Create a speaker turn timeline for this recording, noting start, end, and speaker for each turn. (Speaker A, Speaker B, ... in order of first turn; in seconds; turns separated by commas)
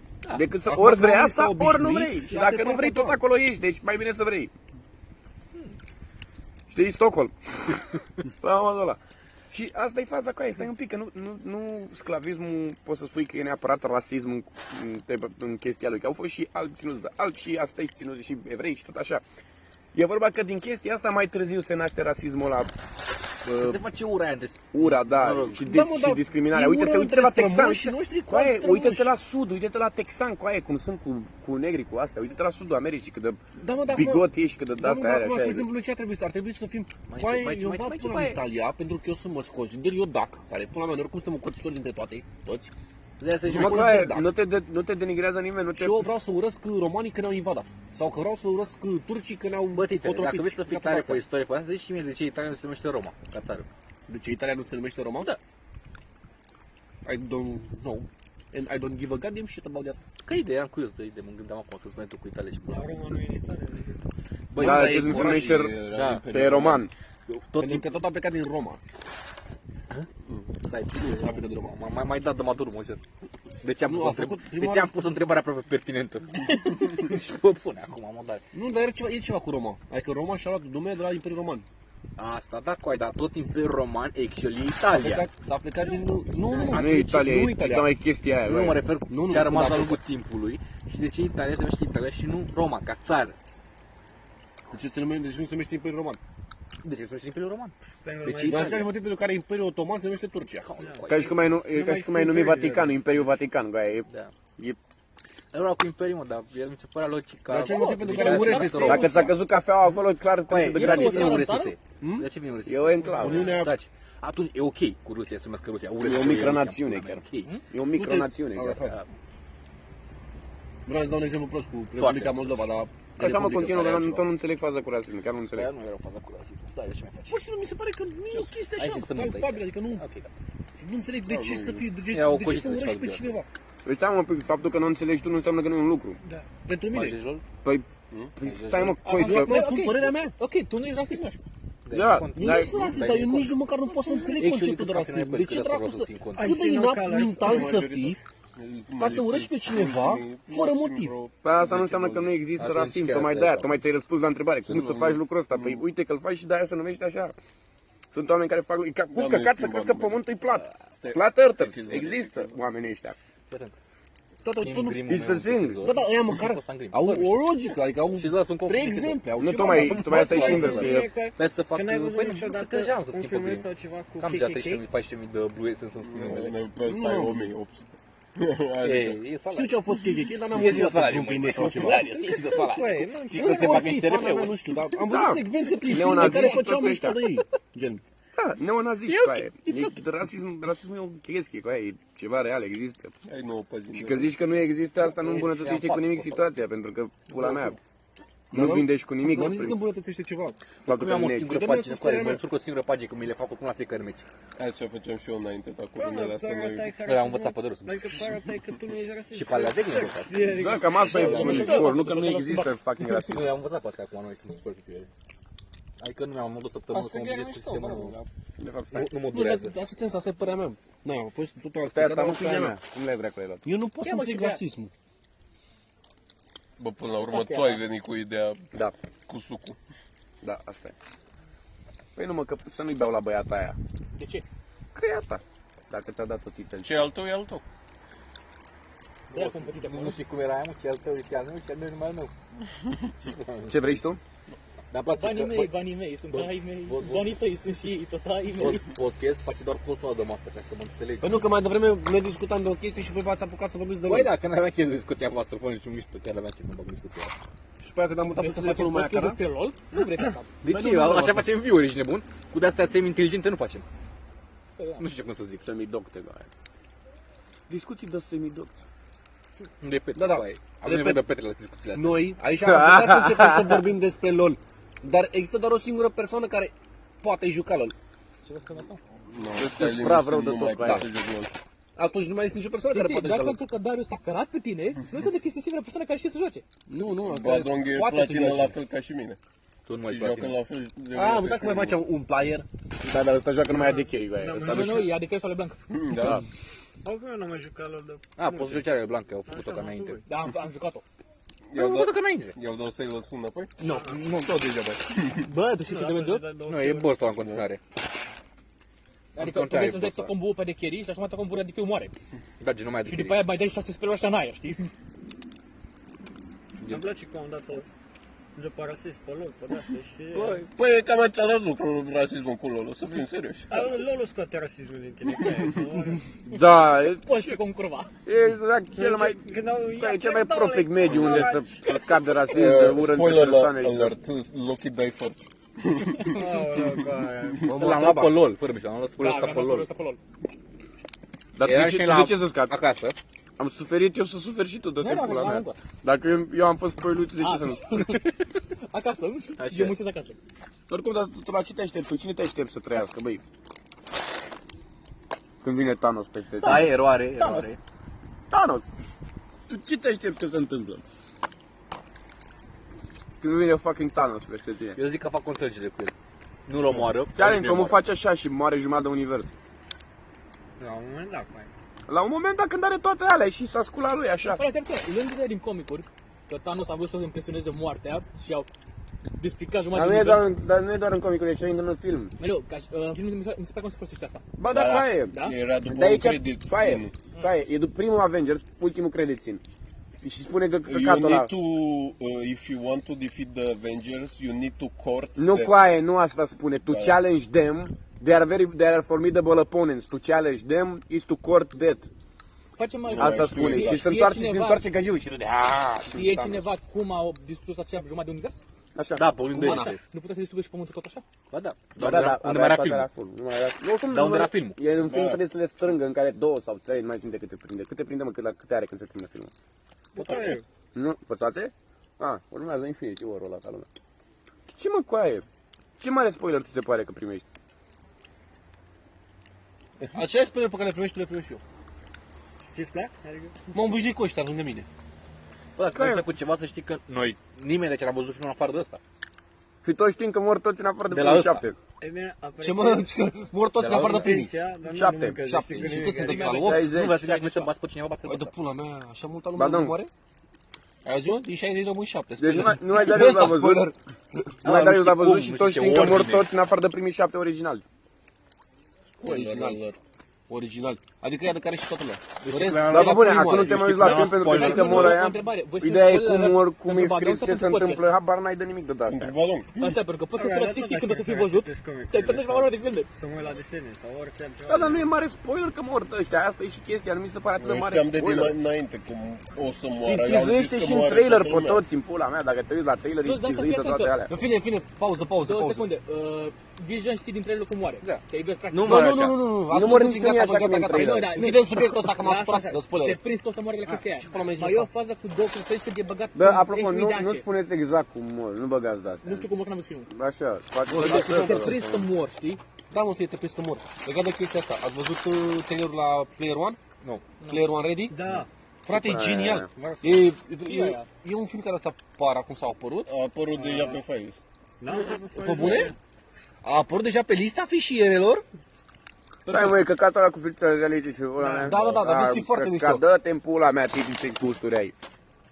Speaker A: 0.3-4.5, Speaker B: 0.6-3.2, Speaker A: 6.7-9.0, Speaker A: 9.5-19.2, Speaker A: 19.9-22.7, Speaker A: 23.4-23.8, Speaker C: 23.6-25.6, Speaker A: 24.7-35.6, Speaker B: 25.6-29.1, Speaker B: 33.5-42.7, Speaker C: 37.1-38.4, Speaker C: 43.2-44.0, Speaker B: 43.5-44.3, Speaker A: 43.5-46.1, Speaker B: 45.8-51.2, Speaker C: 49.7-53.7, Speaker B: 54.1-55.3, Speaker B: 57.0-60.0, Speaker C: 60.2-62.9, Speaker D: 62.7-64.0, Speaker C: 64.5-66.2, Speaker B: 64.5-66.8, Speaker A: 64.6-66.9, Speaker E: 65.3-65.8, Speaker C: 67.3-67.8, Speaker B: 67.5-68.8, Speaker C: 70.6-73.0, Speaker B: 71.0-71.8, Speaker C: 73.6-78.4, Speaker B: 73.8-74.9, Speaker B: 78.5-81.7, Speaker C: 82.2-85.3, Speaker B: 84.9-87.9, Speaker A: 86.7-88.8, Speaker C: 88.4-93.3, Speaker B: 89.1-90.0, Speaker B: 94.7-96.2, Speaker C: 96.8-98.9, Speaker D: 98.0-98.9, Speaker B: 98.4-100.7, Speaker C: 100.6-101.4, Speaker D: 100.8-103.2, Speaker A: 101.1-104.8, Speaker C: 105.5-109.3, Speaker B: 107.5-109.4, Speaker F: 108.2-108.9, Speaker A: 108.8-111.5, Speaker C: 110.5-117.5, Speaker F: 110.7-111.7, Speaker B: 112.0-112.3, Speaker A: 112.7-113.6, Speaker D: 113.0-113.6, Speaker B: 113.2-113.7, Speaker A: 116.0-118.9, Speaker B: 117.9-119.0, Speaker B: 120.8-124.2, Speaker C: 122.0-122.6, Speaker A: 123.2-125.7, Speaker C: 125.5-127.4, Speaker B: 127.3-130.0, Speaker C: 128.7-130.3, Speaker B: 130.8-133.5, Speaker E: 131.3-131.8, Speaker C: 132.1-133.3, Speaker A: 133.8-136.2, Speaker D: 136.2-136.5, Speaker B: 136.7-137.2, Speaker C: 136.9-137.4, Speaker A: 137.6-139.6, Speaker C: 138.4-139.0, Speaker F: 139.0-141.4, Speaker B: 139.2-140.3, Speaker C: 141.8-143.6, Speaker A: 141.9-142.8, Speaker B: 142.3-148.2, Speaker C: 144.3-146.5, Speaker D: 146.3-147.8, Speaker E: 147.3-152.4, Speaker B: 149.0-151.2, Speaker A: 151.4-157.3, Speaker C: 152.6-153.8, Speaker E: 154.7-155.8, Speaker A: 158.1-163.2, Speaker E: 159.1-160.2, Speaker E: 161.0-162.6, Speaker C: 163.5-163.8, Speaker B: 164.4-165.1, Speaker C: 164.6-167.4, Speaker A: 165.1-165.9, Speaker B: 165.8-170.9, Speaker C: 168.1-173.7, Speaker A: 169.4-171.1, Speaker D: 170.1-174.8, Speaker C: 174.2-176.5, Speaker E: 176.0-179.2, Speaker B: 176.8-177.5, Speaker C: 178.8-179.8, Speaker B: 179.5-182.1, Speaker C: 180.5-184.6, Speaker D: 181.9-184.0, Speaker B: 183.3-188.0, Speaker A: 185.0-187.2, Speaker A: 188.3-193.2, Speaker C: 189.1-189.9, Speaker E: 193.2-194.3, Speaker A: 193.9-197.8, Speaker C: 195.0-196.4, Speaker B: 198.5-200.6, Speaker A: 198.5-199.8, Speaker A: 200.8-201.5, Speaker C: 200.9-204.2, Speaker B: 201.4-202.4, Speaker E: 204.6-206.9, Speaker D: 205.9-212.0, Speaker C: 207.0-208.2, Speaker C: 209.3-210.6, Speaker A: 210.5-213.5, Speaker F: 211.1-212.8, Speaker C: 213.2-215.1, Speaker C: 216.0-218.2, Speaker D: 216.9-218.2, Speaker A: 218.6-219.1, Speaker C: 218.9-219.7, Speaker B: 219.3-222.8, Speaker A: 221.9-223.7, Speaker B: 223.6-224.9, Speaker F: 224.0-224.6, Speaker E: 226.8-228.7, Speaker F: 227.3-227.8, Speaker E: 229.3-229.8, Speaker A: 230.4-230.9, Speaker A: 232.2-233.8, Speaker F: 234.1-234.4, Speaker A: 234.9-237.1, Speaker E: 236.8-237.6, Speaker C: 239.3-242.3, Speaker F: 239.3-240.2, Speaker C: 243.2-244.0, Speaker A: 243.7-244.2, Speaker C: 244.9-245.8, Speaker F: 245.2-248.8, Speaker C: 246.3-247.4, Speaker C: 248.6-251.4, Speaker B: 251.2-254.4, Speaker C: 254.0-257.4, Speaker B: 257.8-259.4, Speaker F: 258.3-260.5, Speaker C: 260.6-263.8, Speaker B: 260.6-261.5, Speaker F: 264.8-265.0, Speaker C: 265.0-265.6, Speaker A: 265.6-266.5, Speaker A: 267.7-268.8, Speaker C: 269.8-272.2, Speaker B: 270.1-271.2, Speaker B: 271.9-277.9, Speaker A: 272.6-273.7, Speaker F: 278.4-279.0, Speaker E: 279.2-281.5, Speaker A: 279.6-281.1, Speaker B: 281.9-283.6, Speaker F: 282.9-286.6, Speaker B: 286.9-288.8, Speaker E: 287.2-289.4, Speaker C: 289.9-290.6, Speaker E: 290.0-292.0, Speaker B: 291.1-292.6, Speaker A: 293.0-295.1, Speaker D: 293.7-295.2, Speaker F: 294.6-295.8, Speaker E: 295.9-296.4, Speaker A: 296.2-296.4, Speaker D: 297.0-298.9, Speaker C: 298.4-300.2, Speaker D: 299.4-300.2, Speaker F: 300.2-301.0, Speaker E: 301.7-303.8, Speaker C: 301.7-302.5, Speaker F: 303.8-304.1, Speaker D: 303.8-304.1, Speaker C: 304.0-304.6, Speaker E: 305.2-305.4, Speaker F: 305.4-306.5, Speaker D: 305.8-307.2, Speaker C: 306.7-307.8, Speaker E: 307.4-307.6, Speaker F: 309.3-312.1, Speaker C: 309.4-310.3, Speaker C: 312.6-313.5, Speaker F: 313.1-314.9, Speaker D: 316.8-317.9, Speaker D: 318.5-320.6, Speaker C: 320.3-320.6, Speaker E: 320.7-323.9, Speaker D: 323.7-326.4, Speaker A: 326.5-327.6, Speaker F: 327.1-328.1, Speaker A: 328.2-334.1, Speaker D: 328.9-332.1, Speaker E: 331.1-331.4, Speaker E: 332.5-338.0, Speaker D: 336.3-337.7, Speaker B: 337.7-338.3, Speaker C: 337.7-339.9, Speaker F: 339.2-340.2, Speaker A: 341.6-342.8, Speaker C: 341.6-343.1, Speaker A: 343.6-348.2, Speaker F: 345.0-345.8, Speaker F: 347.4-348.4, Speaker F: 348.9-350.4, Speaker C: 349.6-349.9, Speaker A: 350.9-353.4, Speaker A: 355.6-357.0, Speaker C: 356.6-357.8, Speaker F: 356.7-357.7, Speaker A: 358.5-358.9, Speaker A: 359.7-361.0, Speaker A: 363.4-365.0, Speaker C: 364.9-366.1, Speaker C: 366.7-368.0, Speaker A: 367.3-369.5, Speaker D: 370.8-371.7, Speaker A: 372.1-374.6, Speaker F: 374.5-378.7, Speaker F: 379.4-380.5, Speaker A: 379.9-382.3, Speaker F: 382.4-384.4, Speaker A: 384.6-385.4, Speaker E: 384.6-387.3, Speaker F: 385.3-385.6, Speaker A: 385.9-389.6, Speaker A: 390.2-391.5, Speaker E: 390.9-395.7, Speaker A: 395.4-402.1, Speaker E: 396.9-397.2, Speaker F: 402.8-404.8, Speaker E: 403.1-404.1, Speaker A: 403.2-406.7, Speaker F: 406.1-408.6, Speaker A: 408.9-409.8, Speaker C: 409.1-410.0, Speaker F: 409.6-411.2, Speaker C: 411.5-413.1, Speaker A: 411.9-419.5, Speaker C: 414.0-414.8, Speaker E: 414.9-415.4, Speaker D: 420.1-420.6, Speaker A: 420.9-423.9, Speaker A: 424.7-425.4, Speaker A: 426.0-427.4, Speaker B: 430.0-431.6, Speaker D: 432.6-433.6, Speaker B: 433.7-434.9, Speaker C: 435.8-439.0, Speaker A: 435.9-436.2, Speaker A: 439.8-441.8, Speaker C: 441.1-441.7, Speaker D: 442.0-443.1, Speaker B: 442.6-444.5, Speaker C: 443.8-444.3, Speaker D: 443.9-446.9, Speaker A: 444.8-445.4, Speaker B: 445.4-446.9, Speaker A: 446.3-447.4, Speaker C: 446.6-448.5, Speaker B: 448.2-450.1, Speaker A: 449.6-449.9, Speaker B: 451.0-454.5, Speaker A: 452.4-453.9, Speaker C: 454.6-456.5, Speaker A: 454.6-457.8, Speaker E: 459.2-460.0, Speaker B: 459.2-459.8, Speaker B: 460.5-464.3, Speaker C: 462.4-465.2, Speaker A: 462.8-469.3, Speaker F: 464.0-468.1, Speaker E: 469.1-469.9, Speaker F: 469.8-473.1, Speaker D: 470.3-475.1, Speaker A: 474.7-478.6, Speaker E: 477.6-481.8, Speaker A: 480.0-484.3, Speaker F: 483.2-484.2, Speaker B: 484.3-485.9, Speaker F: 485.4-489.1, Speaker C: 488.0-489.4, Speaker B: 488.8-493.2, Speaker A: 489.7-491.4, Speaker F: 490.9-497.5, Speaker B: 494.2-494.9, Speaker A: 496.3-499.5, Speaker F: 499.2-500.1, Speaker A: 500.1-502.1, Speaker B: 500.9-501.9, Speaker F: 500.9-502.6, Speaker B: 502.9-506.8, Speaker F: 507.4-507.7, Speaker B: 507.5-508.1, Speaker D: 508.1-508.5, Speaker B: 508.8-513.1, Speaker A: 508.9-509.7, Speaker D: 509.7-510.3, Speaker F: 510.6-511.1, Speaker E: 513.0-514.4, Speaker D: 513.5-514.0, Speaker D: 514.8-516.0, Speaker B: 515.3-515.9, Speaker B: 516.6-518.4, Speaker B: 519.5-519.8, Speaker A: 519.5-525.0, Speaker F: 521.4-521.7, Speaker B: 521.6-523.0